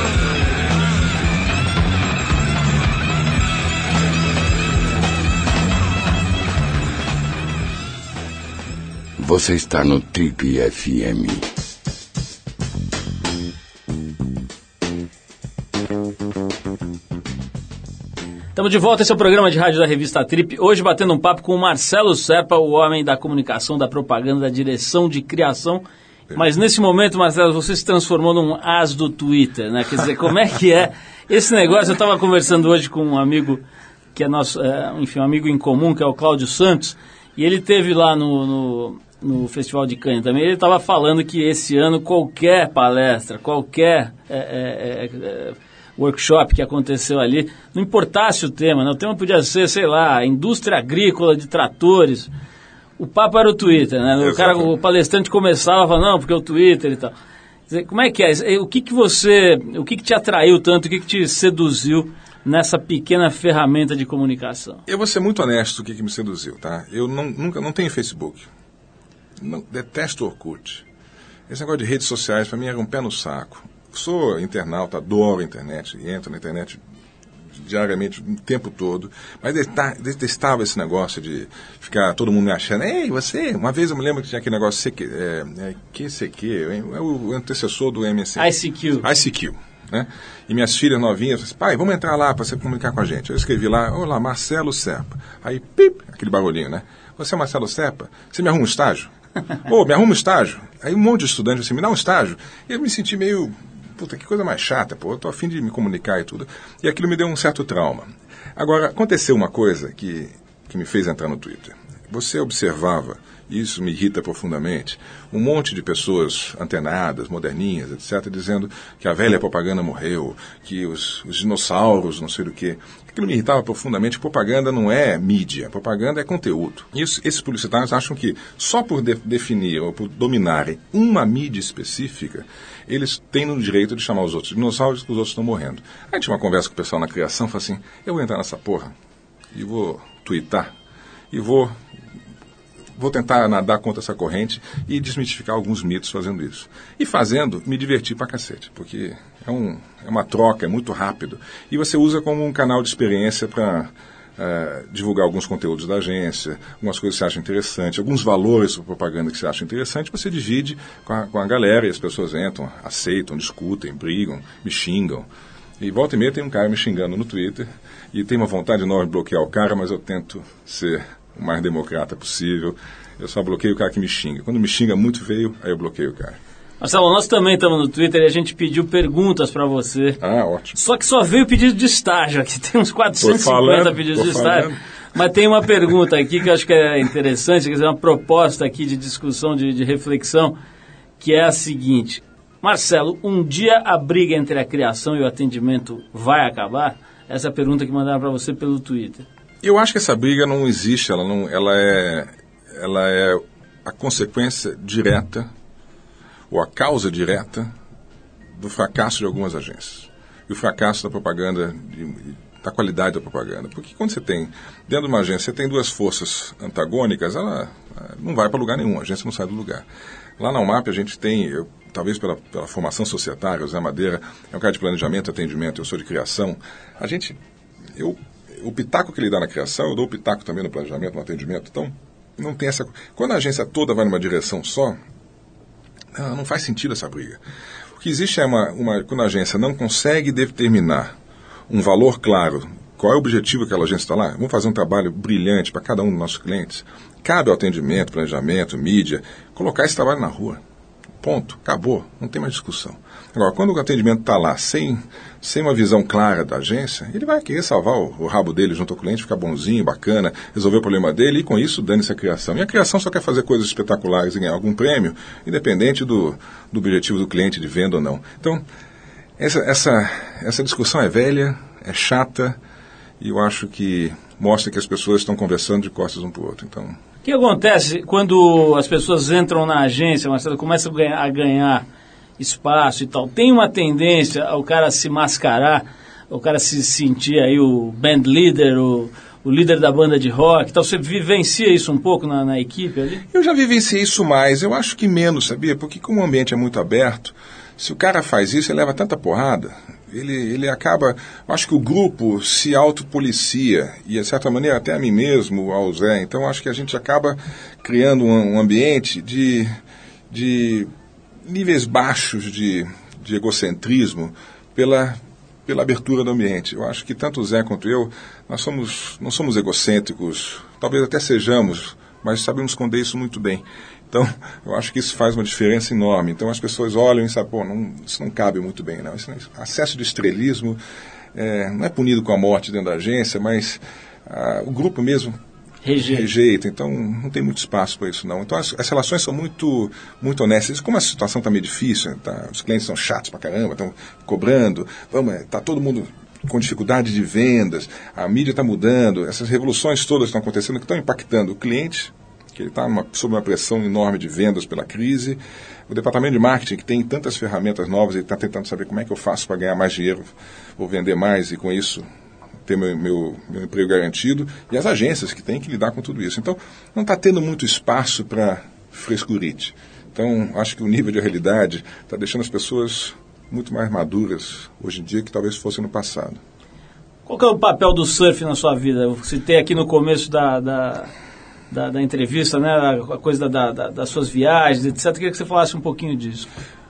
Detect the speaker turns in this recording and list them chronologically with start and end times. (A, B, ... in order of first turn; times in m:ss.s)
0:09.2-0:11.5 A
0:18.6-0:33.6 B
0:34.2-0:52.3 B
0:53.0-0:57.1 B
0:54.2-0:54.7 C
0:57.7-1:04.8 B
1:04.9-1:08.5 C
1:09.4-1:10.8 C
1:11.5-1:16.8 C
1:17.6-1:39.1 C
1:28.4-1:29.1 B
1:39.6-2:18.9 C
2:19.5-2:20.7 C
2:21.3-2:21.8 C
2:23.0-2:45.3 C
2:45.8-2:56.4 C
2:56.8-3:00.2 B
3:00.2-3:00.8 C
3:00.7-3:10.6 B
3:03.1-3:04.8 C
3:11.2-3:19.3 B
3:19.6-3:25.5 C
3:26.5-3:27.7 C
3:28.6-3:39.9 C
3:40.4-3:47.4 C
3:48.0-3:55.0 C
3:56.1-3:57.4 C
3:58.0-4:01.1 C
4:01.7-4:10.6 C
4:11.2-4:28.6 C
4:29.4-4:32.6 C
4:33.2-4:37.0 C
4:37.2-4:41.8 B
4:42.4-4:53.2 B
4:53.3-5:09.8 C
5:10.3-5:10.9 C
5:11.4-5:30.8 C
5:31.3-5:35.4 C
5:35.8-5:36.3 B
5:36.0-6:00.3 C
6:00.8-6:02.0 C
6:02.7-6:16.4 C
6:17.3-6:21.1 B
6:21.7-6:26.5 B